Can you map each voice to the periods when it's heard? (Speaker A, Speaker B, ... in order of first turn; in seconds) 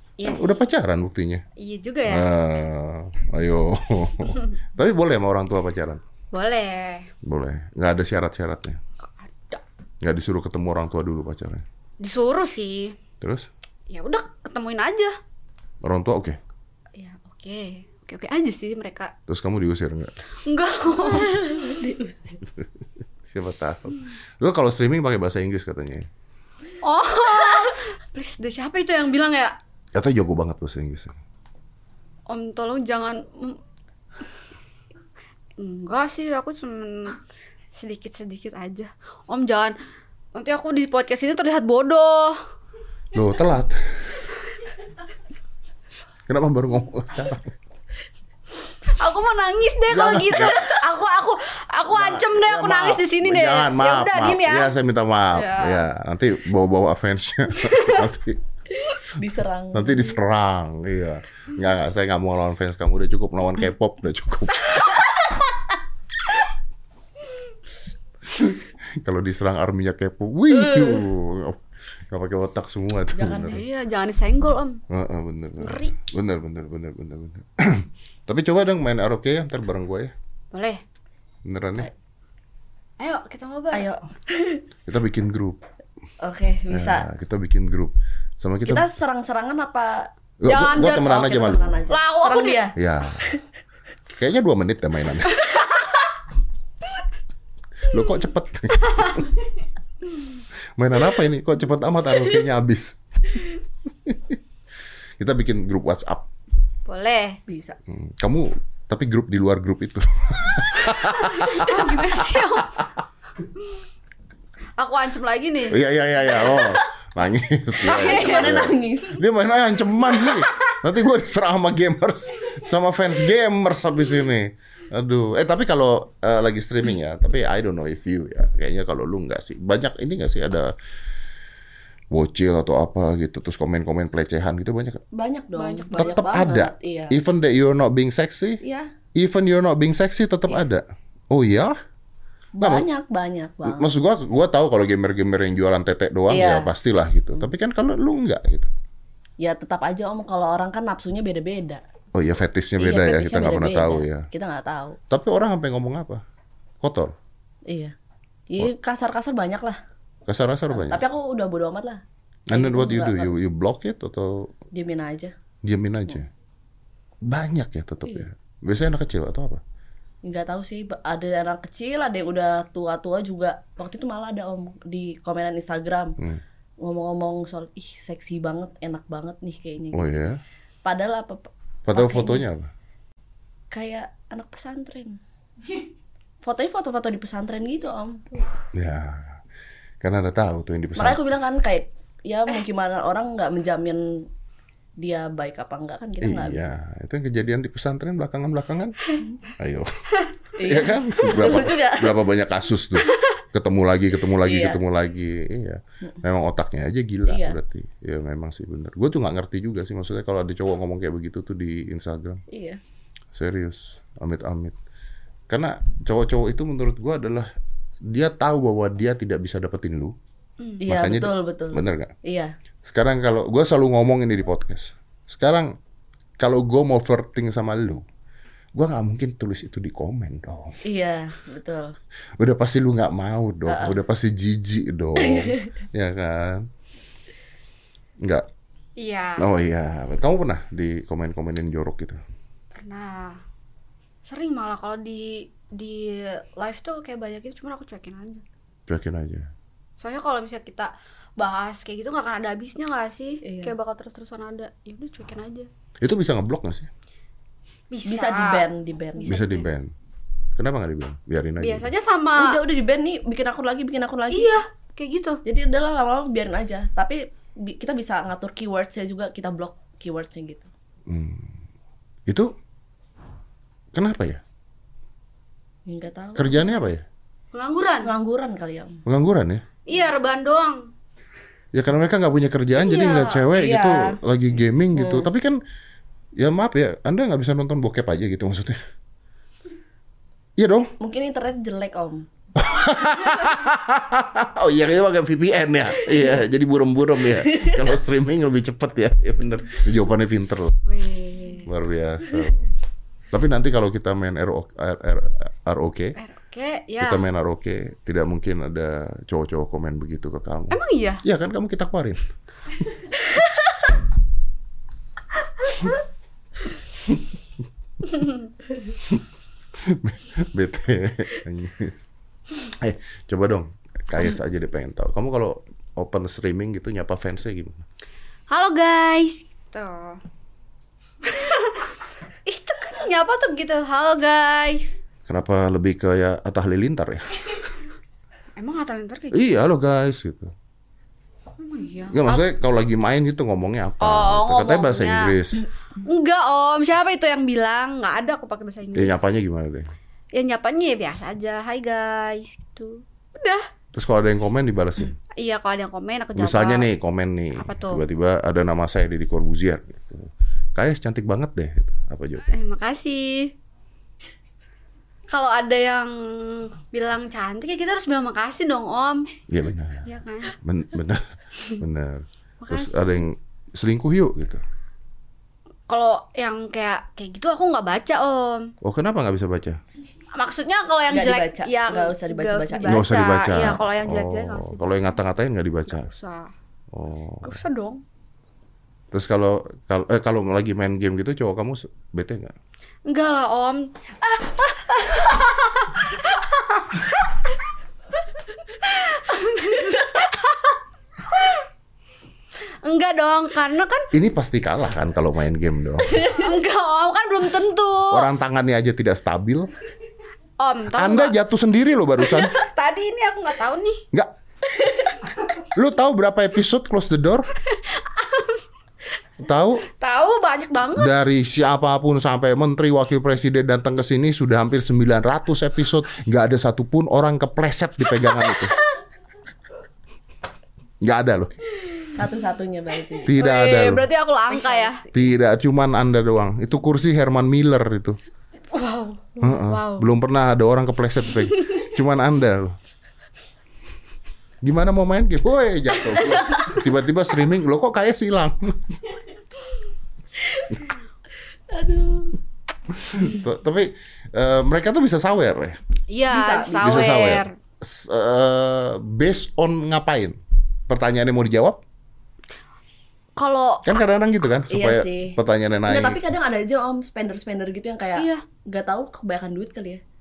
Speaker A: 0.2-0.7, 1.6-2.3, 6.3-7.1, 9.3-9.6, 12.0-13.0, 13.9-15.2, 17.0-19.1, 20.4-21.4, 26.8-29.6, 32.3-33.6, 35.6-37.2, 37.7-39.8, 40.4-42.4, 48.8-54.7, 55.3-55.9, 57.6-58.1, 73.5-74.8, 75.6-75.9, 80.5-80.8, 83.0-83.9, 90.5-91.1, 91.9-92.6, 95.5-95.9, 106.9-107.4, 110.9-112.7, 114.8-115.8, 117.8-118.7, 135.6-136.1, 239.0-239.5, 242.8-243.4, 244.3-248.4, 250.0-255.7, 257.9-258.6, 259.2-259.6, 261.6-262.6, 264.3-265.4, 277.5-278.1, 279.9-280.9, 282.8-283.4, 300.9-301.7, 306.2-307.2, 310.7-311.2, 328.5-330.2, 331.2-331.9, 332.4-335.0, 338.6-339.5, 341.6-342.4, 344.0-345.4, 346.0-349.2, 350.4-353.7, 355.4-356.9, 357.6-358.0, 362.5-363.5, 365.3-369.3, 370.0-370.6, 372.6-373.2, 375.9-378.7, 380.3-385.0, 385.9-386.5, 387.4-388.0, 393.1-397.3, 398.6-401.7, 402.8-404.1, 406.3-408.3, 410.6-411.4, 412.2-414.1, 417.6-418.6, 419.9-421.1, 433.3-435.0, 438.7-440.1, 456.1-457.5, 463.4-463.9, 468.2-468.4
Speaker B: 0.2-1.4, 2.1-6.0, 7.2-8.8, 10.0-11.6, 13.2-13.5, 15.8-16.4, 19.3-20.2, 23.3-26.1, 29.9-31.2, 43.1-44.3, 46.3-47.5, 49.9-50.7, 51.9-58.4, 59.7-65.0, 68.3-73.6, 74.9-80.1, 81.5-81.9, 84.9-85.6, 86.7-88.9, 90.4-91.8, 92.8-93.3, 94.2-95.4, 97.9-99.3, 100.8-103.0, 104.0-104.4, 105.2-106.3, 107.9-112.4, 115.7-130.7, 132.1-135.0, 135.9-138.6, 139.2-141.8, 142.6-142.9, 143.6-148.7, 152.2-154.3, 155.1-156.2, 156.8-157.1, 160.3-161.0, 162.5-164.5, 165.6-166.3, 167.2-169.6, 179.9-180.4, 181.9-182.7, 188.7-189.4, 190.0-191.2, 196.2-199.0, 199.6-199.9, 200.6-212.4, 213.3-214.8, 215.5-217.5, 218.1-220.2, 220.9-222.1, 222.9-225.8, 226.4-228.0, 228.8-230.8, 232.4-236.7, 239.4-242.2, 248.9-249.5, 256.0-256.9, 259.3-259.9, 260.6-261.9, 271.1-271.6, 273.9-274.4, 276.4-277.0, 279.1-279.6, 281.7-285.6, 286.4-288.8, 290.6-290.9, 292.6-300.8, 301.7-302.7, 303.3-306.2, 307.0-312.3, 319.8-322.1, 322.6-327.8, 335.3-337.6, 339.3-340.5, 342.1-345.6, 348.9-349.9, 353.9-355.2, 356.4-362.6, 369.5-374.6, 378.8-379.8, 382.9-386.1, 386.9-387.6, 389.1-392.6, 404.1-406.3, 408.1-409.7, 410.9-412.5, 415.6-417.5, 419.4-419.9, 421.0-428.8, 431.0-431.6, 433.3-434.1, 435.1-438.2, 439.4-442.8, 444.6-449.0, 453.0-455.8, 456.8-460.4, 460.9-461.8, 463.8-466.2
Speaker C: 21.1-22.4, 58.8-60.2, 73.2-73.6, 83.7-84.6, 86.2-87.1, 88.7-93.4, 107.5-107.8, 116.4-116.8, 117.8-119.2, 135.1-137.2, 138.6-138.9, 142.6-143.9, 146.3-146.7, 149.4-151.8, 152.8-155.0, 157.7-157.9, 158.5-159.8, 160.7-163.3, 164.7-165.3, 170.2-176.2, 176.8-180.3, 180.8-182.5, 183.7-185.2, 186.4-188.5, 191.0-194.3, 195.0-196.6, 200.6-202.2, 204.4-204.8, 207.3-207.6, 212.5-212.8, 220.8-222.5, 230.8-232.0, 233.7-234.0, 235.2-235.7, 253.4-253.8, 258.1-259.5, 262.4-264.6, 265.4-270.7, 275.9-276.8, 278.1-279.0, 283.5-284.2, 284.9-285.3, 291.0-292.3, 381.1-383.1, 432.1-433.4, 434.5-435.1, 446.3-446.7, 450.4-450.7, 451.7-452.4, 456.3-457.3, 464.7-470.0